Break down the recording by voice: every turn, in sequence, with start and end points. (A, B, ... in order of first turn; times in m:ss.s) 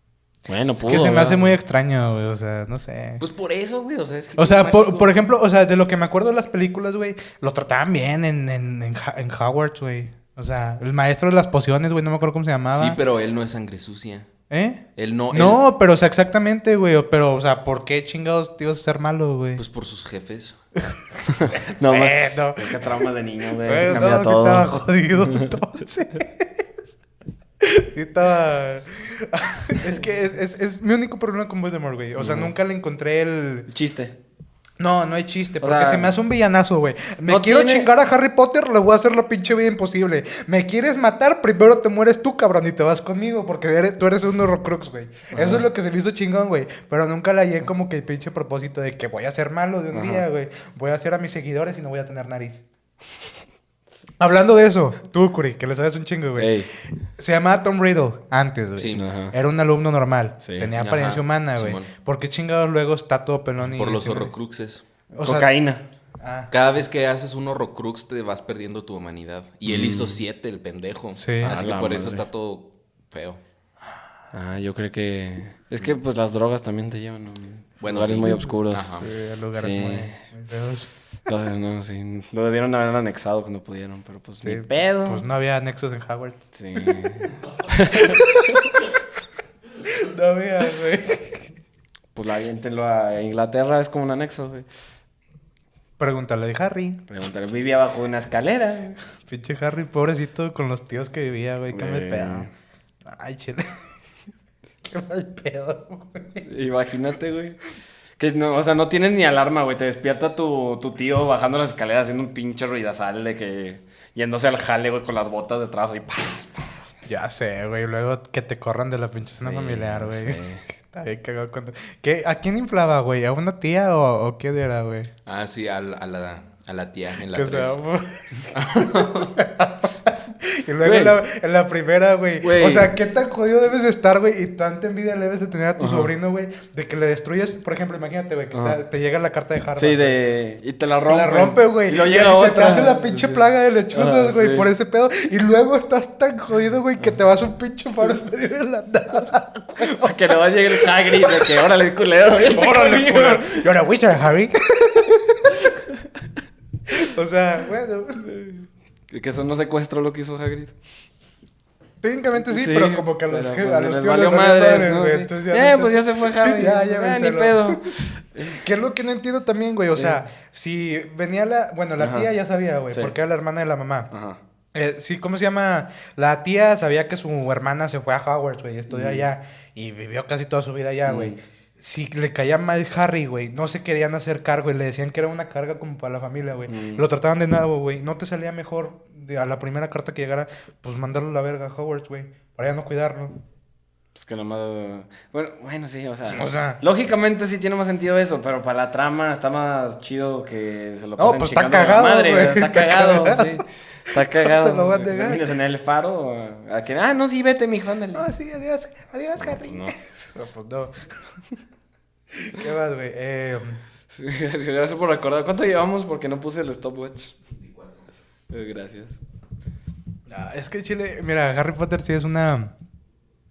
0:00.5-0:01.6 A
0:00.8-0:03.2 B
0:03.2-0:05.2 C
0:04.4-0:13.0 B
0:12.7-0:14.3 C
0:14.5-0:19.6 B
0:15.0-0:15.6 C
0:19.6-0:20.6 C
0:21.3-0:25.5 A
0:21.7-0:22.8 B
0:23.6-0:26.7 B
0:27.6-0:33.7 B
0:32.2-0:32.5 A
0:33.7-0:34.1 A
0:34.8-0:52.6 B
0:35.6-0:36.1 A
0:37.3-0:37.9 A
0:45.3-0:45.6 A
0:49.9-0:50.2 A
0:54.2-1:04.3 B
0:56.4-0:56.7 A
0:58.8-0:59.0 C
0:58.9-0:59.4 A
1:00.4-1:00.7 A
1:00.8-1:01.9 C
1:03.6-1:04.8 C
1:05.1-1:05.5 B
1:05.2-1:05.8 A
1:06.2-1:06.5 B
1:06.5-1:13.4 C
1:09.6-1:10.2 A
1:11.2-1:11.6 B
1:11.4-1:12.2 A
1:14.3-1:19.0 A
1:17.8-1:19.1 C
1:18.2-1:20.9 B
1:19.5-1:20.2 A
1:21.2-1:25.2 A
1:24.4-1:27.2 B
1:26.5-1:28.8 A
1:27.9-1:28.8 B
1:29.8-1:31.5 B
1:32.1-1:34.6 A
1:36.0-1:37.0 B
1:37.1-1:39.0 A
1:39.3-1:42.5 B
1:41.7-1:42.5 A
1:43.0-1:43.8 B
1:44.8-1:46.5 B
1:46.4-1:47.6 A
1:48.2-1:56.7 A
1:57.0-2:05.1 B
1:59.4-2:00.6 A
2:05.2-2:07.8 C
2:07.3-2:20.2 B
2:08.5-2:09.3 C
2:10.8-2:11.2 A
2:12.4-2:12.9 A
2:15.8-2:16.1 A
2:18.5-2:18.8 A
2:19.8-2:24.7 A
2:21.1-2:31.7 B
2:29.8-2:33.7 A
2:32.4-2:35.7 B
2:36.9-2:38.3 B
2:38.2-2:40.7 A
2:42.0-2:54.1 B
2:42.4-2:48.6 A
2:49.9-2:50.2 A
2:52.0-2:52.3 A
2:52.9-2:53.1 A
2:54.1-2:54.4 A
2:54.7-3:13.4 B
2:58.9-2:59.2 A
3:01.0-3:01.4 A
3:06.7-3:07.0 A
3:14.1-3:28.2 A
3:16.3-3:16.8 B
3:21.2-3:25.5 B
3:28.1-3:31.3 B
3:29.4-3:30.0 A
3:32.3-3:33.8 B
3:34.1-3:37.4 A
3:37.6-3:38.0 C
3:38.5-3:39.2 A
3:40.3-3:42.7 B